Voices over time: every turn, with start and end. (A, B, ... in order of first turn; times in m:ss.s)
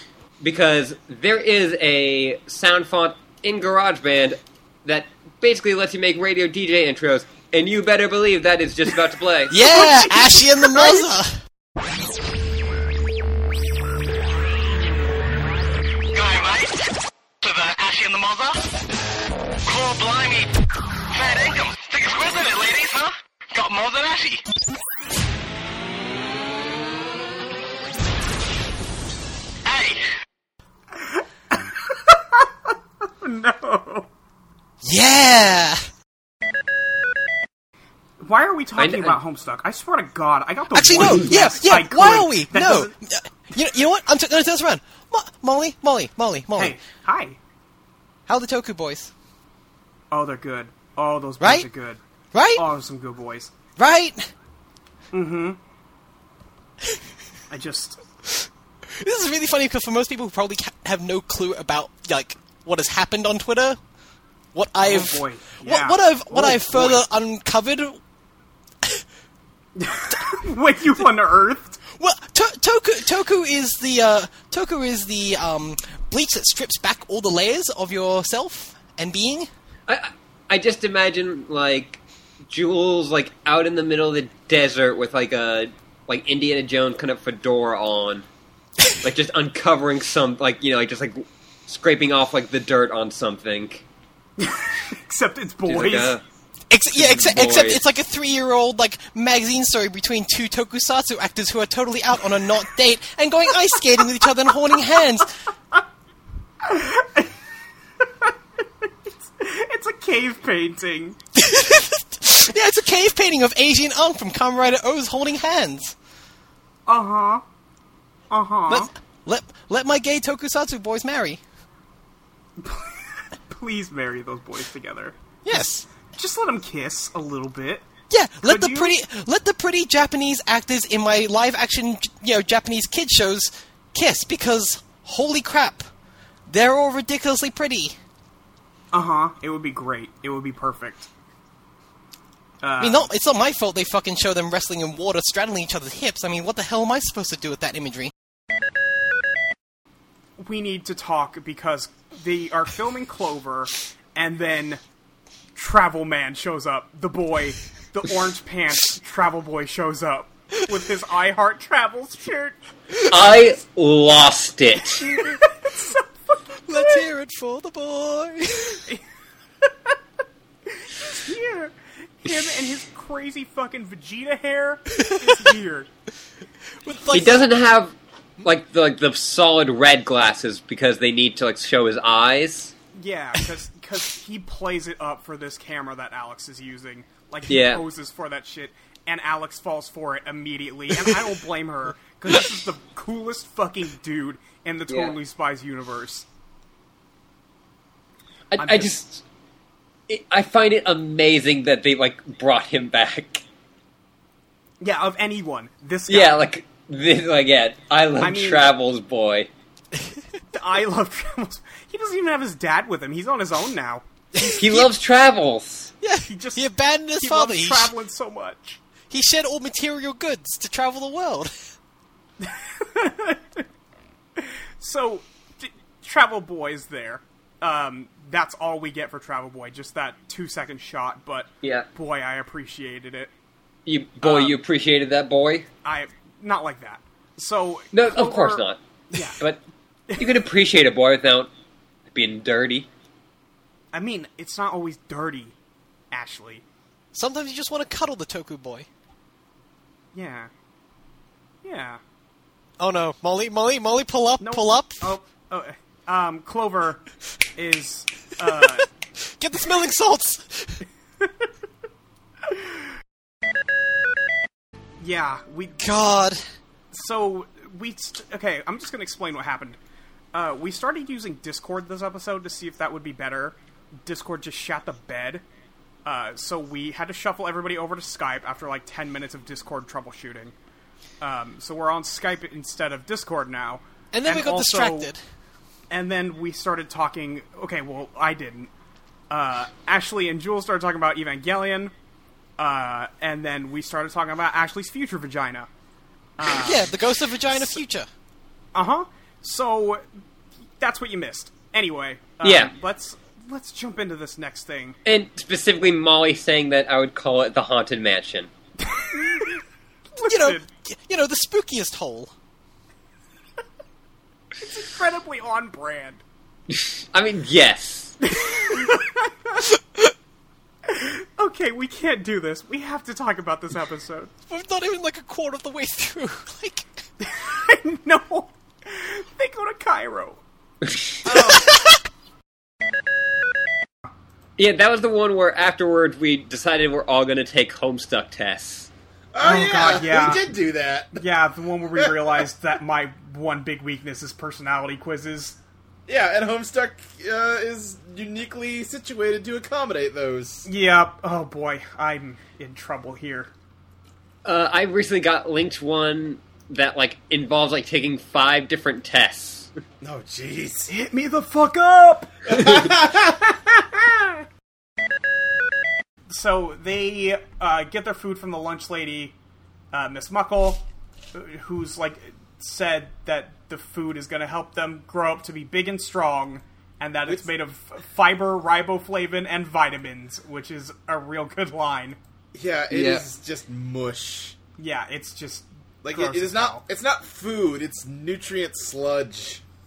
0:00.4-0:09.5 A
0:09.5-0:11.4 B
0:09.7-0:11.0 C
0:16.1-0:16.8 D
0:17.4-0:18.6 D
0:19.6-0:20.5 D
0:21.1-0:24.4 D
0:29.6-0:30.1 D
0:31.0-0:32.4 C
0:33.0-0:34.1 C
0:34.8-0:35.8 B
0:38.2-0:42.9 C
0:38.8-0:39.2 A
0:40.7-0:46.8 B
0:46.6-0:47.4 C
0:48.3-0:49.1 B
0:50.1-0:52.0 C
0:51.4-0:51.7 B
0:52.3-0:52.6 B
0:52.6-0:53.5 C
0:53.8-0:54.3 B
0:55.1-0:55.6 C
0:57.5-0:58.0 C
0:59.0-1:03.8 B
1:04.5-1:08.0 B
1:04.8-1:07.0 C
1:09.8-1:11.8 C
1:11.8-1:19.5 B
1:19.9-1:28.2 A
1:29.0-1:33.8 A
1:34.4-1:36.2 C
1:35.6-1:36.2 A
1:36.7-1:45.3 B
1:37.0-1:37.8 A
1:46.6-1:47.3 C
1:49.2-1:51.2 C
1:51.4-1:55.9 B
1:56.9-1:57.4 C
1:58.3-1:58.9 C
1:58.7-2:01.4 B
2:02.6-2:03.0 C
2:03.5-2:05.2 C
2:05.4-2:05.9 B
2:06.0-2:07.8 C
2:08.1-2:15.9 B
2:08.4-2:09.0 C
2:16.5-2:18.0 B
2:18.9-2:21.1 C
2:22.6-2:23.1 C
2:22.8-2:28.1 B
2:30.4-2:34.8 C
2:35.5-2:42.6 C
2:43.1-2:45.0 A
2:45.0-2:46.0 C
2:46.7-2:48.8 B
2:46.7-2:47.0 C
2:50.8-2:55.9 C
2:56.8-2:57.4 B
2:57.1-3:02.7 A
3:02.9-3:16.3 C
3:07.5-3:07.8 A
3:14.9-3:15.1 A
3:18.5-3:19.2 A
3:18.6-3:18.9 C
3:20.1-3:23.4 A
3:24.8-3:26.4 C
3:26.1-3:29.5 A
3:28.2-3:28.7 C
3:30.5-3:34.0 C
3:34.4-3:34.9 B
3:34.6-3:35.9 A
3:36.0-3:37.9 B
3:36.3-3:36.6 C
3:37.2-3:38.8 C
3:39.1-3:41.5 B
3:42.4-3:43.6 C
3:44.4-3:53.3 C
3:53.8-3:55.7 A
3:54.2-3:54.6 C
3:55.8-3:59.4 C
3:57.9-3:58.8 A
4:00.1-4:00.4 C
4:00.2-4:01.5 A
4:02.1-4:02.9 A
4:03.9-4:05.6 C
4:06.1-4:06.6 C
4:07.1-4:08.9 B
4:10.1-4:10.5 C
4:11.6-4:12.0 C
4:12.8-4:15.1 B
4:14.4-4:17.0 C
4:17.6-4:18.8 C
4:19.4-4:20.8 B
4:25.0-4:25.8 C
4:25.8-4:26.4 B
4:26.9-4:29.8 C
4:30.3-4:35.4 C
4:36.0-4:40.5 C
4:41.2-4:45.1 C
4:44.1-4:45.2 B
4:45.9-4:48.7 C
4:49.3-4:51.9 C
4:52.6-4:55.7 C
4:56.4-4:56.9 C
4:56.5-4:58.1 B
4:57.5-4:57.8 C
4:58.7-5:00.0 C
5:00.8-5:05.0 C
5:02.4-5:02.7 A
5:05.0-5:08.5 A
5:08.9-5:09.6 C
5:10.2-5:10.7 C
5:10.2-5:12.3 B
5:14.6-5:16.2 C
5:16.7-5:18.2 A
5:18.2-5:19.6 C
5:20.8-5:24.3 C
5:24.5-5:26.9 B
5:27.2-5:30.4 C
5:31.2-5:31.7 C
5:34.6-5:38.9 A
5:39.3-5:41.2 E
5:39.4-5:40.5 C
5:41.2-5:45.6 C
5:46.1-5:50.7 E
5:50.6-5:53.5 C
5:54.4-5:59.7 A
6:00.0-6:00.9 E
6:00.9-6:02.9 C
6:02.5-6:03.6 E
6:06.3-6:09.3 C
6:09.9-6:22.2 C
6:22.5-6:24.6 E
6:22.9-6:23.2 A
6:24.8-6:26.8 C
6:26.0-6:29.6 E